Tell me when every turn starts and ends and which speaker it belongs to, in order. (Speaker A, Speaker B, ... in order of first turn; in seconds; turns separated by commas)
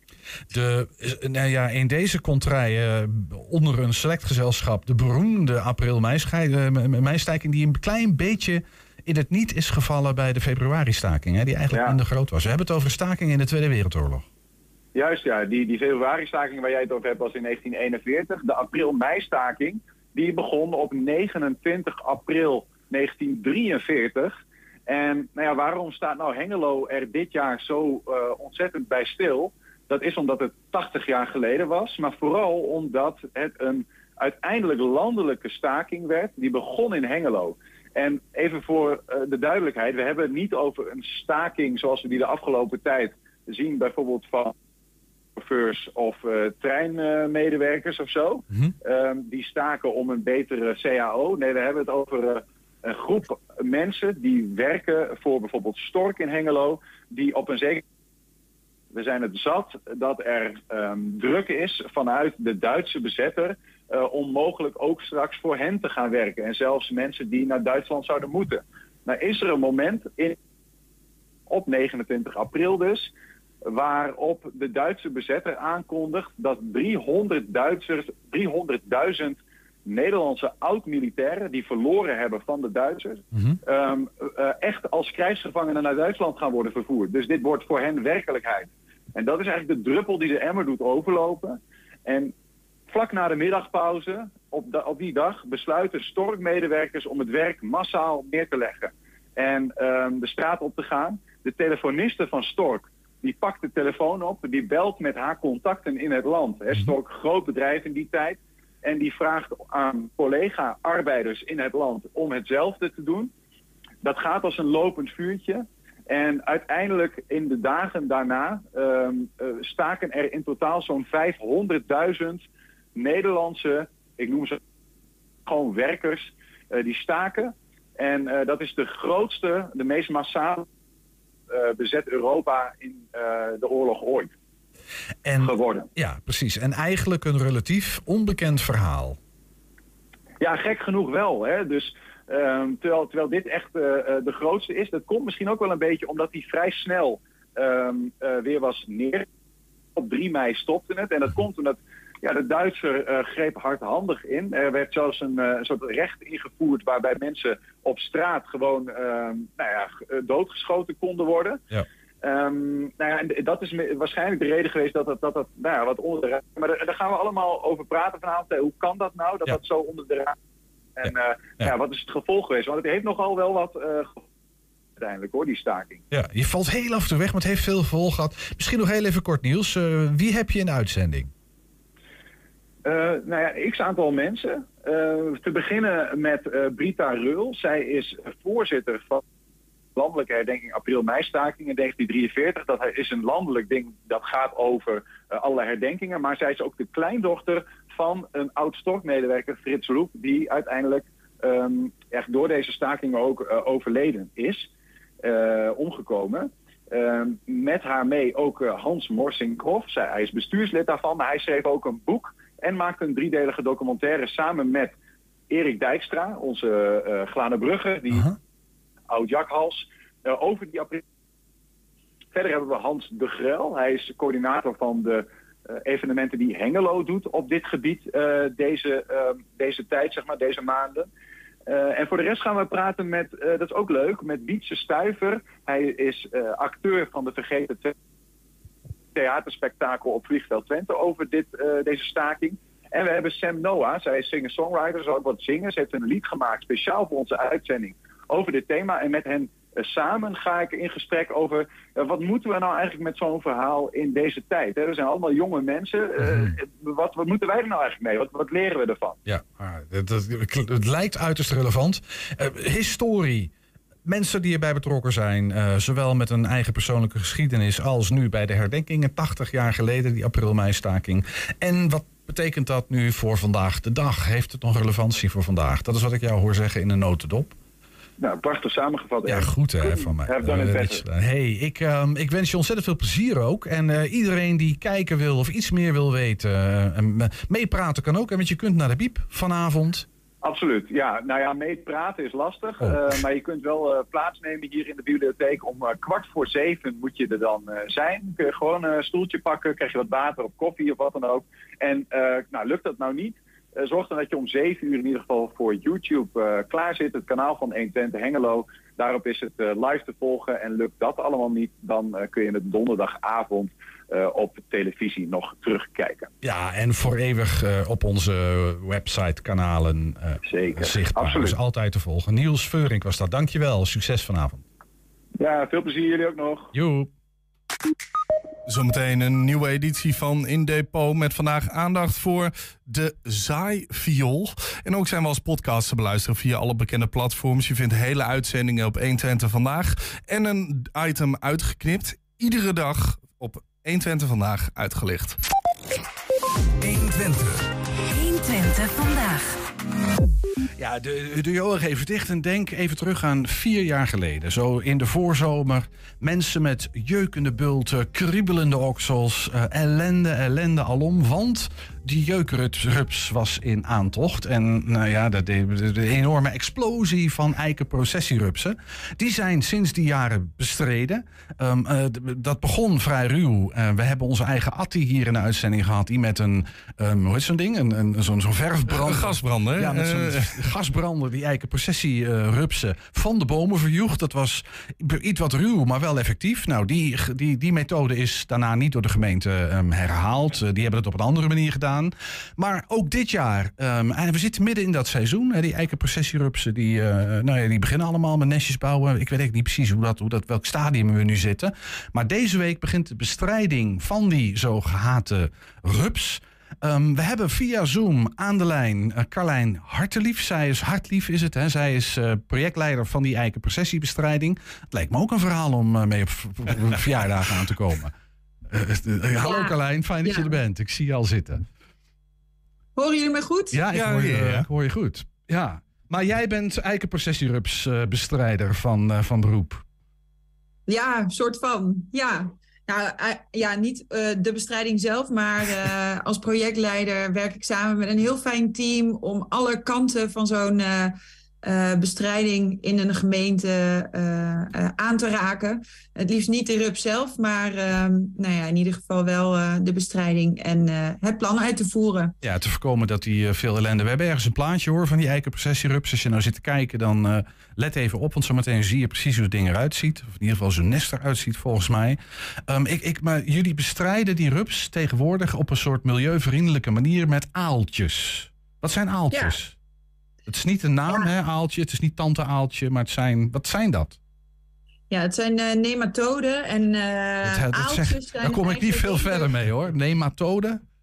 Speaker A: 0.5-14.3, Speaker B: 11.7-12.0, Speaker B: 14.9-24.4, Speaker B: 24.9-44.5, Speaker B: 45.4-57.8, Speaker B: 58.9-70.4, Speaker B: 71.5-73.1, Speaker B: 73.7-92.3, Speaker A: 83.3-83.6, Speaker B: 92.9-113.3, Speaker B: 114.0-124.6, Speaker B: 125.5-130.7, Speaker B: 131.5-134.3, Speaker A: 135.2-139.2, Speaker B: 135.4-135.9, Speaker B: 140.4-149.3, Speaker B: 150.0-161.6, Speaker B: 162.2-170.4, Speaker B: 171.0-174.3, Speaker A: 171.0-171.7, Speaker B: 175.0-176.0, Speaker A: 176.1-181.3, Speaker B: 182.8-189.2, Speaker B: 189.9-204.7, Speaker B: 205.2-214.9, Speaker B: 215.5-218.3, Speaker B: 219.1-221.0, Speaker B: 222.3-231.1, Speaker B: 231.7-237.9, Speaker B: 239.1-259.2, Speaker A: 256.2-256.6, Speaker A: 259.2-263.5, Speaker A: 264.1-277.6, Speaker B: 278.2-281.0, Speaker A: 279.2-290.1, Speaker B: 290.4-316.3, Speaker A: 316.4-324.6, Speaker B: 320.4-321.6, Speaker B: 325.4-326.7, Speaker A: 326.7-327.1, Speaker C: 328.7-345.4, Speaker A: 346.8-347.6, Speaker A: 350.8-418.1, Speaker C: 378.9-380.7, Speaker A: 418.7-421.6, Speaker D: 419.4-420.6, Speaker D: 423.0-423.8, Speaker A: 423.7-429.8, Speaker C: 423.9-424.7, Speaker D: 430.9-452.3, Speaker A: 452.4-469.8, Speaker D: 469.3-469.6, Speaker A: 470.5-474.2, Speaker D: 475.1-479.5, Speaker A: 477.4-480.8